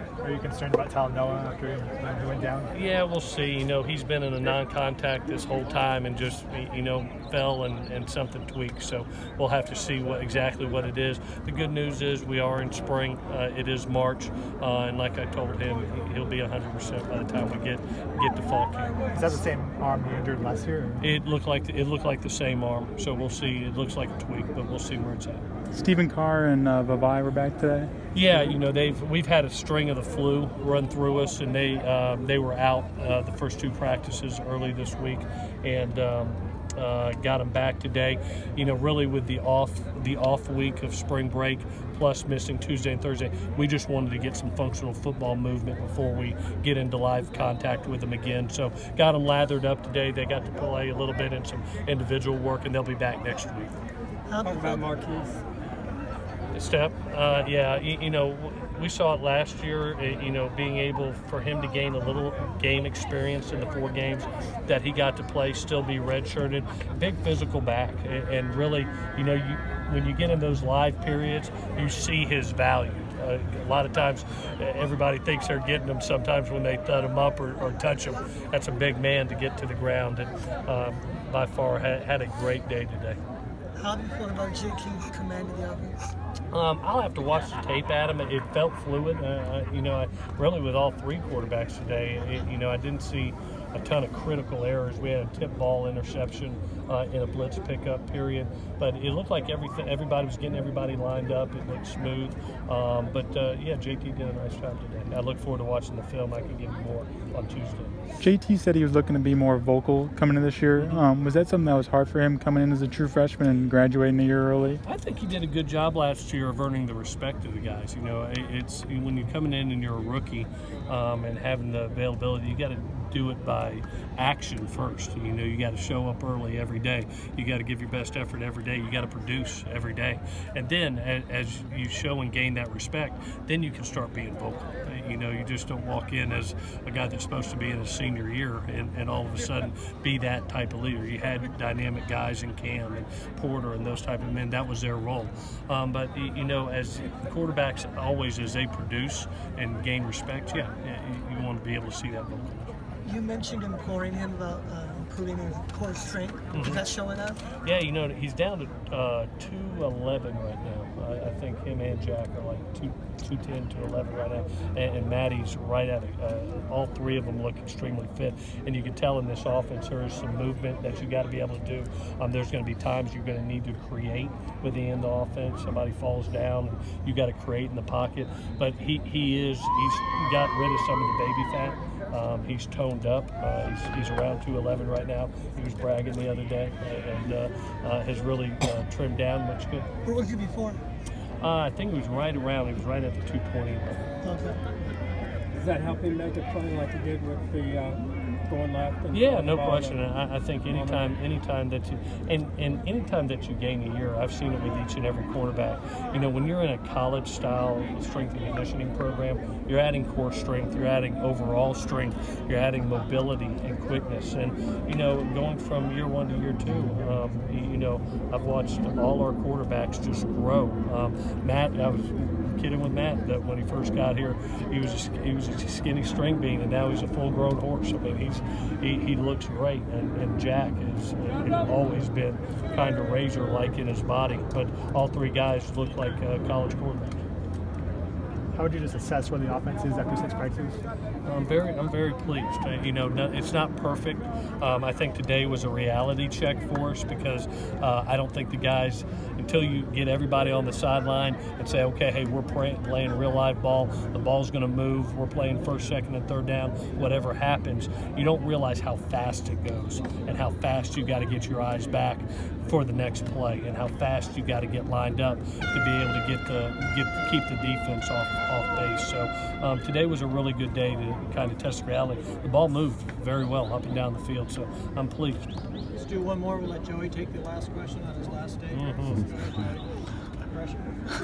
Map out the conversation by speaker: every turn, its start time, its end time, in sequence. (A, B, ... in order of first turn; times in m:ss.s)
0:00.2-0:02.7 A
0:02.7-0:19.2 B
0:19.1-0:21.1 A
0:21.0-0:25.4 B
0:25.7-0:27.9 C
0:28.1-0:53.7 B
0:54.3-0:54.8 D
0:54.4-0:55.4 E
0:56.5-1:23.2 B
1:23.8-1:26.1 D
1:26.5-1:48.0 B
1:48.2-1:54.8 C
1:54.8-2:32.7 B
2:33.0-2:37.4 D
2:36.5-2:36.8 B
2:37.5-3:09.9 B
3:10.0-3:10.8 D
3:11.4-3:14.2 B
3:14.2-3:14.6 D
3:15.5-3:20.0 E
3:19.1-3:57.2 B
3:20.7-3:21.1 E
3:58.5-4:00.8 A
4:01.2-4:35.5 B
4:36.0-4:39.8 A
4:37.0-4:39.8 D
4:38.7-4:39.2 B
4:40.5-4:41.0 A